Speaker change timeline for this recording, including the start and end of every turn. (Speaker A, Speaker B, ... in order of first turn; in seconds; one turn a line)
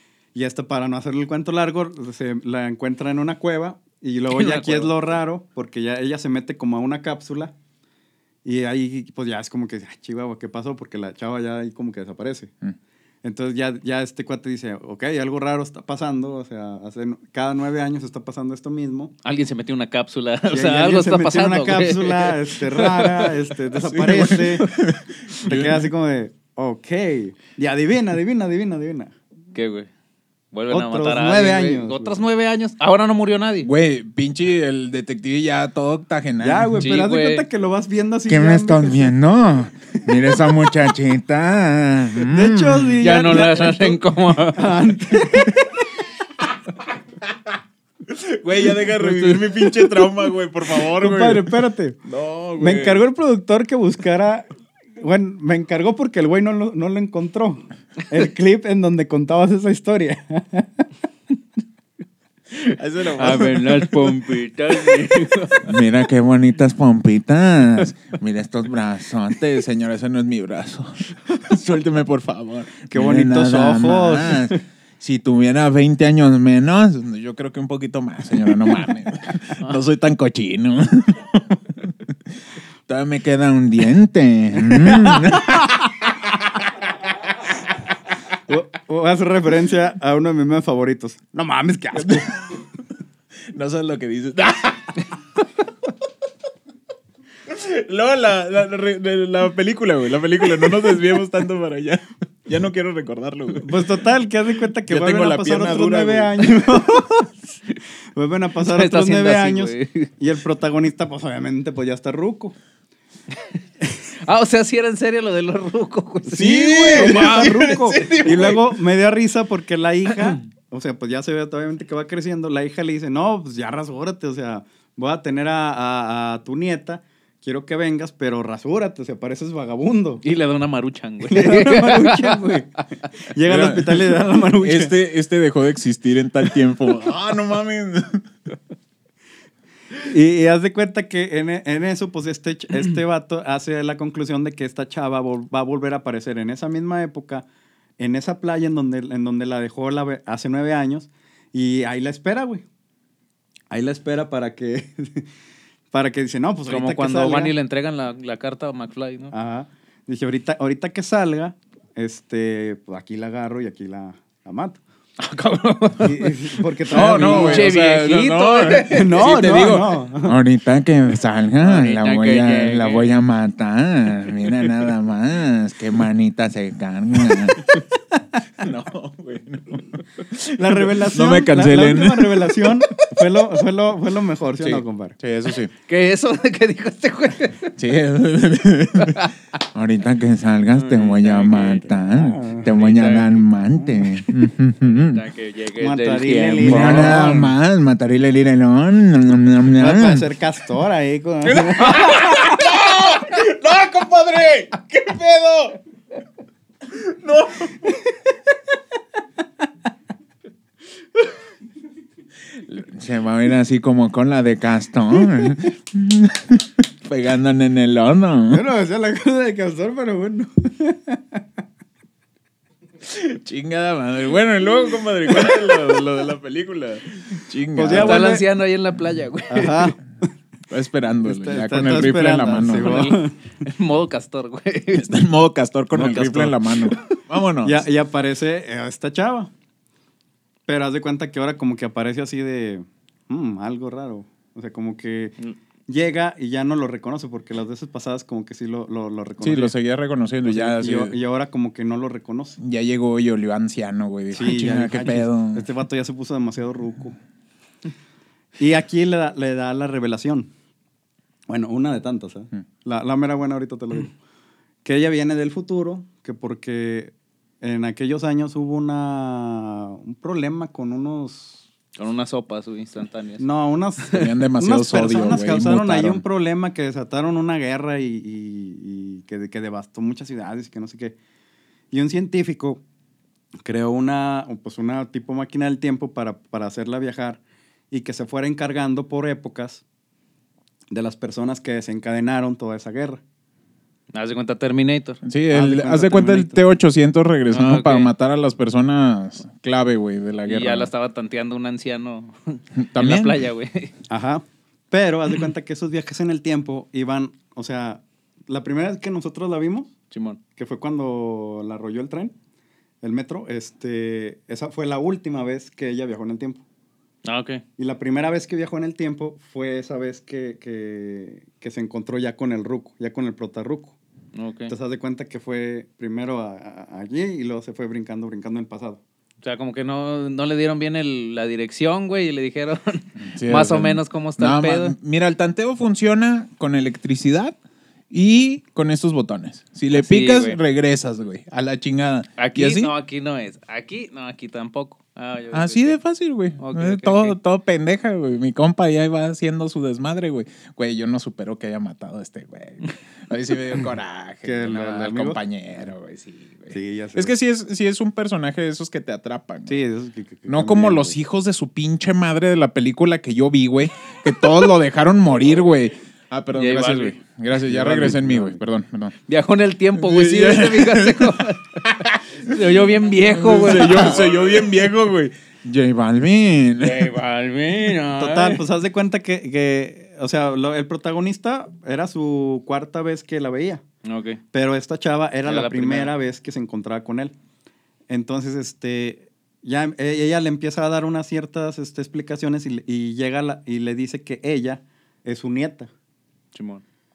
Speaker A: 0.3-7.5
Speaker B: 4.3-5.1
Speaker A: 8.4-12.5
Speaker A: 13.2-19.1
Speaker B: 19.2-23.3
Speaker A: 20.5-24.7
Speaker C: 23.8-25.9
Speaker A: 25.4-29.1
Speaker B: 29.5-29.9
Speaker B: 30.5-33.7
Speaker A: 30.7-32.2
Speaker C: 33.6-37.0
Speaker A: 36.4-39.1
Speaker B: 36.8-37.5
Speaker C: 38.3-43.0
Speaker A: 42.2-45.8
Speaker B: 43.0-44.8
Speaker C: 48.1-53.0
Speaker A: 50.9-52.0
Speaker A: 52.6-54.5
Speaker A: 55.0-60.8
Speaker C: 62.8-64.2
Speaker B: 63.1-65.7
Speaker C: 64.9-82.1
Speaker A: 72.9-74.6
Speaker C: 82.9-86.6
Speaker A: 84.7-85.4
Speaker A: 88.5-92.5
Speaker C: 91.9-92.6
Speaker C: 93.5-95.1
Speaker C: 97.5-103.9
Speaker A: 103.6-107.3
Speaker C: 104.9-106.8
Speaker A: 108.2-112.6
Speaker B: 108.6-110.1
Speaker B: 114.2-118.6
Speaker C: 116.3-118.5
Speaker A: 116.8-130.2
Speaker B: 130.2-132.7
Speaker A: 131.2-132.7
Speaker A: 133.3-134.9
Speaker C: 133.4-138.2
Speaker A: 140.0-147.4
Speaker A: 148.0-152.6
Speaker A: 153.7-155.3
Speaker A: 155.9-157.5
Speaker B: 156.7-159.3
Speaker A: 159.3-164.8
Speaker B: 165.2-169.8
Speaker A: 166.0-167.7
Speaker C: 166.9-177.7
Speaker A: 168.9-170.4
Speaker B: 171.6-173.1
Speaker C: 178.6-182.7
Speaker A: 180.6-185.2
Speaker C: 184.6-185.7
Speaker B: 185.9-187.8
Speaker C: 187.8-195.2
Speaker B: 189.0-189.3
Speaker B: 190.7-192.0
Speaker A: 192.0-192.7
Speaker B: 192.6-193.3
Speaker B: 194.9-197.5
Speaker A: 195.8-197.5
Speaker C: 196.6-200.3
Speaker A: 199.8-202.2
Speaker C: 201.4-205.8
Speaker C: 206.9-207.9
Speaker C: 212.6-218.7
Speaker A: 218.5-221.4
Speaker C: 223.0-228.3
Speaker A: 227.8-228.5
Speaker B: 227.9-229.9
Speaker A: 229.5-230.0
Speaker C: 230.7-233.1
Speaker A: 231.2-233.3
Speaker B: 232.8-235.2
Speaker C: 234.9-237.9
Speaker A: 235.9-236.6
Speaker A: 237.6-239.5
Speaker A: 240.7-245.4
Speaker A: 245.9-249.8
Speaker C: 249.4-251.2
Speaker A: 250.4-252.6
Speaker C: 252.6-255.7
Speaker A: 254.3-257.2
Speaker A: 258.6-260.5
Speaker A: 261.5-264.1
Speaker A: 264.8-271.7
Speaker B: 272.0-273.5
Speaker A: 273.4-281.1
Speaker C: 274.1-276.2
Speaker A: 281.9-282.8
Speaker A: 283.6-289.8
Speaker A: 290.9-293.2
Speaker B: 294.1-295.2
Speaker C: 295.2-300.9
Speaker A: 295.5-296.6
Speaker B: 297.5-298.1
Speaker B: 300.5-303.9
Speaker C: 302.8-303.4
Speaker A: 304.1-309.9
Speaker B: 310.1-310.4
Speaker A: 310.6-312.3
Speaker A: 313.0-316.6
Speaker B: 317.2-317.6
Speaker A: 317.8-324.0
Speaker B: 324.4-324.7
Speaker A: 324.7-329.0
Speaker B: 329.4-334.9
Speaker C: 333.2-337.6
Speaker C: 338.1-342.9
Speaker B: 339.9-340.6
Speaker B: 342.4-346.0
Speaker C: 345.5-359.8
Speaker B: 346.6-347.4
Speaker A: 354.4-355.4
Speaker A: 356.7-357.3
Speaker A: 359.7-361.2
Speaker C: 360.5-369.2
Speaker B: 366.5-367.2
Speaker A: 367.7-368.6
Speaker B: 369.3-374.6
Speaker C: 370.0-371.4
Speaker C: 372.1-372.6
Speaker C: 373.3-377.1
Speaker B: 376.8-378.6
Speaker A: 378.2-383.8
Speaker B: 384.0-384.4
Speaker A: 384.5-387.3
Speaker B: 385.4-386.1
Speaker A: 388.1-395.9
Speaker B: 396.6-396.8